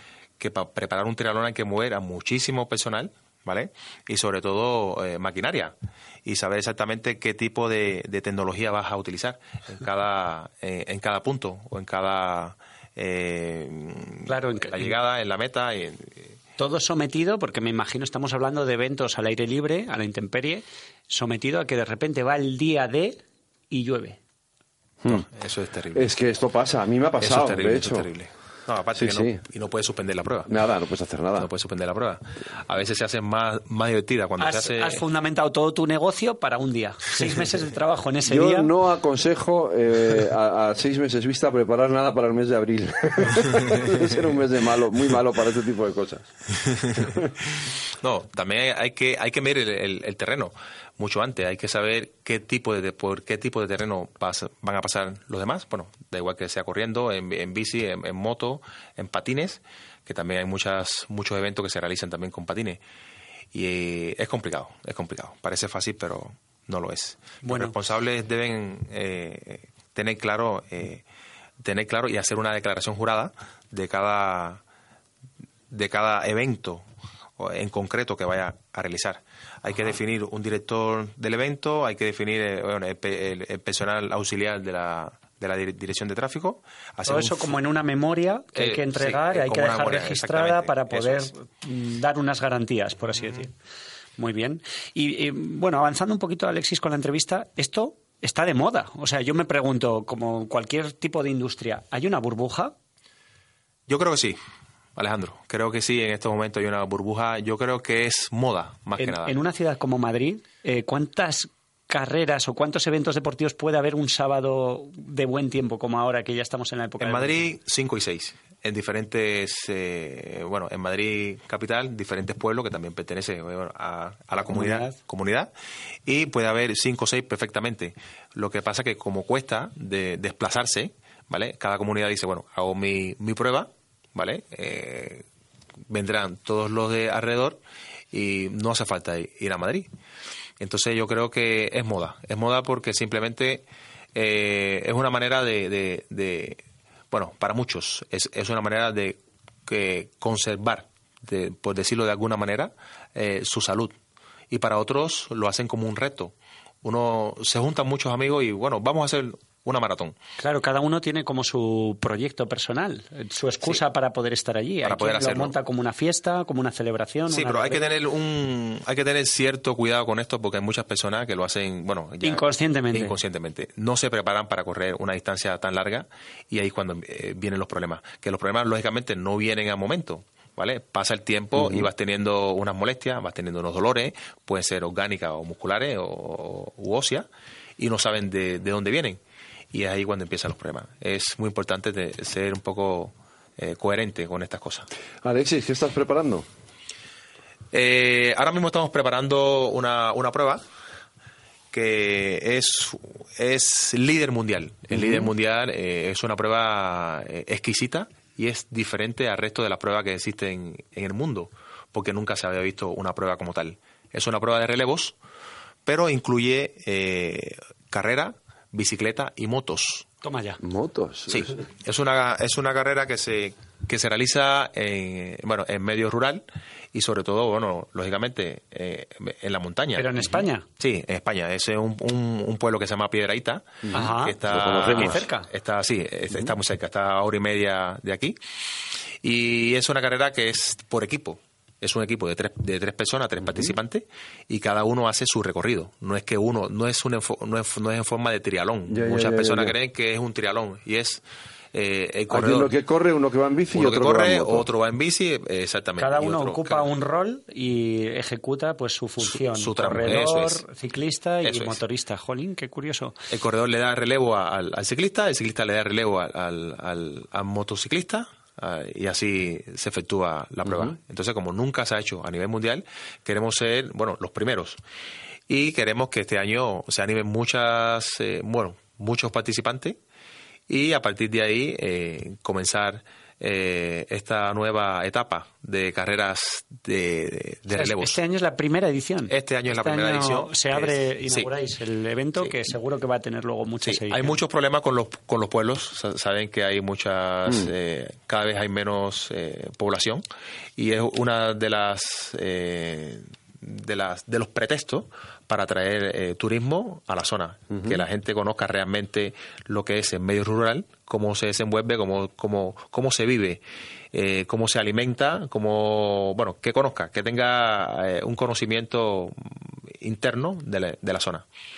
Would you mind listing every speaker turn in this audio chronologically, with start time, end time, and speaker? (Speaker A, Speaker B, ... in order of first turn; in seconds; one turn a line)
Speaker A: 0.4-16.4
Speaker B: 14.3-14.9
Speaker B: 16.6-24.2
Speaker A: 25.1-26.1
Speaker C: 25.9-28.1
Speaker A: 27.2-30.5
Speaker C: 28.9-29.4
Speaker C: 30.5-31.5
Speaker A: 31.4-35.0
Speaker B: 34.4-38.7
Speaker C: 38.2-46.3
Speaker A: 46.7-62.8
Speaker C: 47.0-47.3
Speaker A: 63.5-71.0
Speaker B: 67.4-67.7
Speaker A: 71.6-74.6
Speaker A: 75.7-76.8
Speaker A: 77.4-87.5
Speaker B: 87.0-93.5
Speaker A: 88.5-91.3
Speaker A: 93.2-93.5
Speaker B: 94.2-102.7
Speaker A: 103.9-104.4
Speaker A: 105.0-109.4
Speaker B: 109.0-117.4
Speaker A: 117.0-125.5
Speaker B: 124.5-124.9
Speaker A: 126.0-135.2
Speaker A: 135.9-137.6
Speaker A: 138.1-139.9
Speaker A: 140.6-153.9
Speaker A: 154.5-160.2
Speaker B: 160.4-167.8
Speaker A: 164.8-165.5
Speaker A: 167.3-187.3
Speaker B: 172.2-173.1
Speaker C: 181.5-181.9
Speaker A: 187.8-189.2
Speaker A: 189.7-194.9
Speaker C: 195.2-196.4
Speaker A: 197.7-200.6
Speaker A: 201.7-215.2
Speaker C: 204.9-205.3
Speaker A: 215.8-220.1
Speaker B: 220.2-220.6
Speaker C: 220.6-221.6
Speaker A: 221.3-230.2
Speaker B: 229.9-230.6
Speaker A: 230.8-238.4
Speaker C: 233.8-235.2
Speaker B: 233.9-234.4
Speaker B: 234.9-235.5
Speaker A: 239.2-251.2
Speaker C: 243.4-243.7
Speaker C: 248.9-249.7
Speaker A: 251.7-252.7
Speaker C: 252.3-254.7
Speaker A: 253.7-256.9
Speaker B: 256.0-263.1
Speaker A: 259.2-260.6
Speaker A: 261.4-261.8
Speaker A: 263.3-274.8
Speaker C: 270.6-270.9
Speaker A: 275.5-280.0
Speaker A: 280.7-288.2
Speaker B: 287.7-294.3
Speaker A: 289.3-291.5
Speaker A: 293.8-300.2
Speaker A: 300.8-313.6
Speaker C: 307.7-308.0
Speaker A: 314.1-321.4